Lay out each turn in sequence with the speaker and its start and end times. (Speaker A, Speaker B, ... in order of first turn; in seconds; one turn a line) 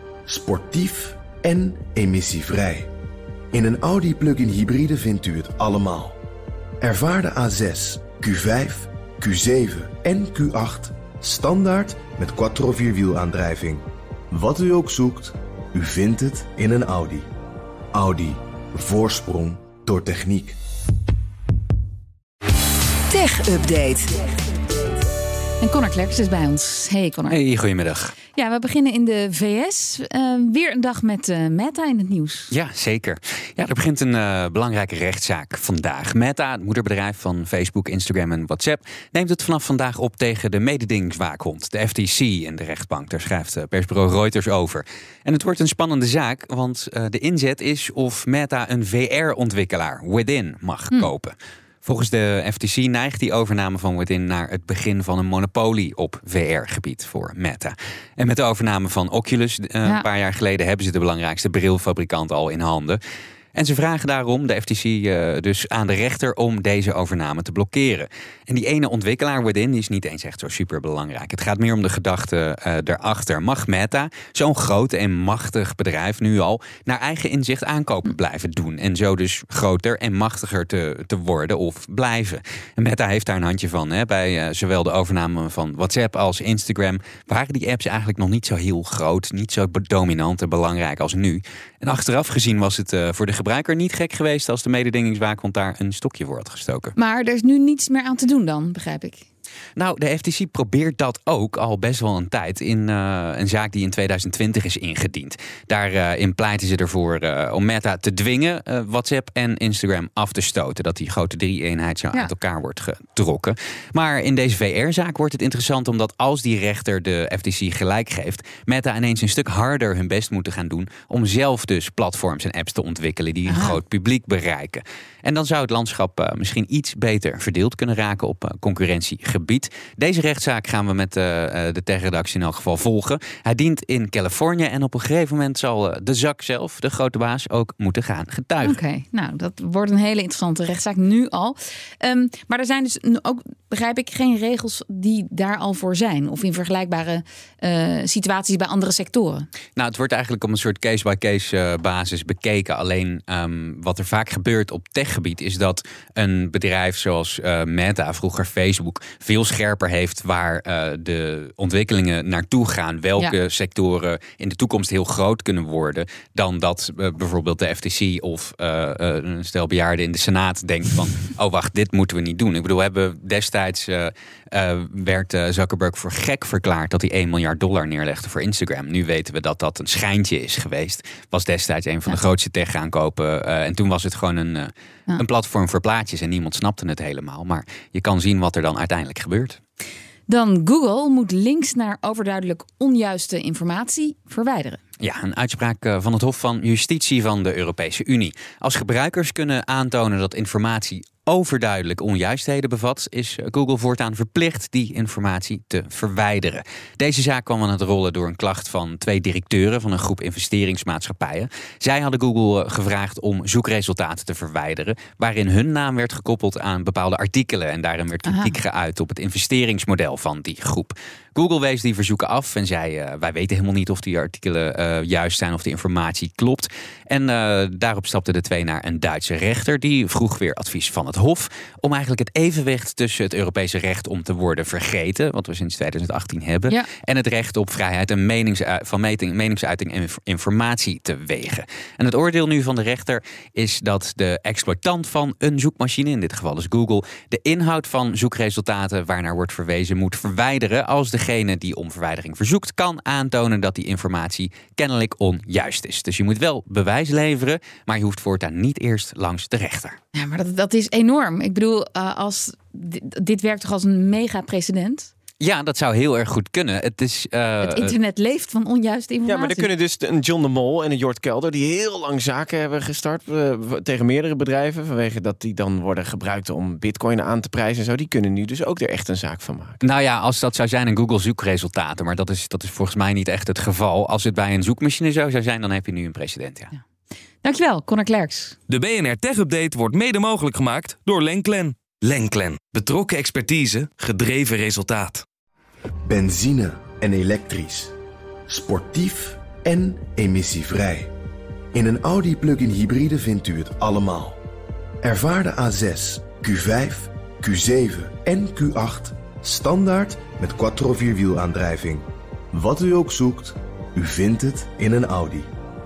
Speaker A: 0.3-2.9
Speaker A: 3.5-6.2
Speaker A: 6.8-17.3
Speaker A: 17.9-20.6
Speaker B: 23.1-24.1
Speaker B: 25.6-27.4
Speaker C: 27.3-28.2
Speaker B: 28.3-32.5
Speaker C: 32.5-63.0
Speaker C: 63.5-96.9
Speaker B: 97.0-99.2
Speaker C: 99.8-138.8
Speaker B: 123.5-123.8
Speaker B: 138.6-149.5
Speaker C: 149.8-189.6
Speaker B: 190.3-194.8
Speaker C: 195.0-260.0
Speaker B: 218.3-218.6
Speaker B: 260.1-265.1
Speaker C: 265.4-267.9
Speaker B: 267.6-269.7
Speaker D: 269.3-279.8
Speaker C: 279.8-286.7
Speaker B: 287.4-288.6
Speaker E: 288.7-295.2
Speaker A: 296.1-297.9
Speaker A: 298.5-301.1
Speaker A: 301.7-304.4
Speaker A: 305.0-315.5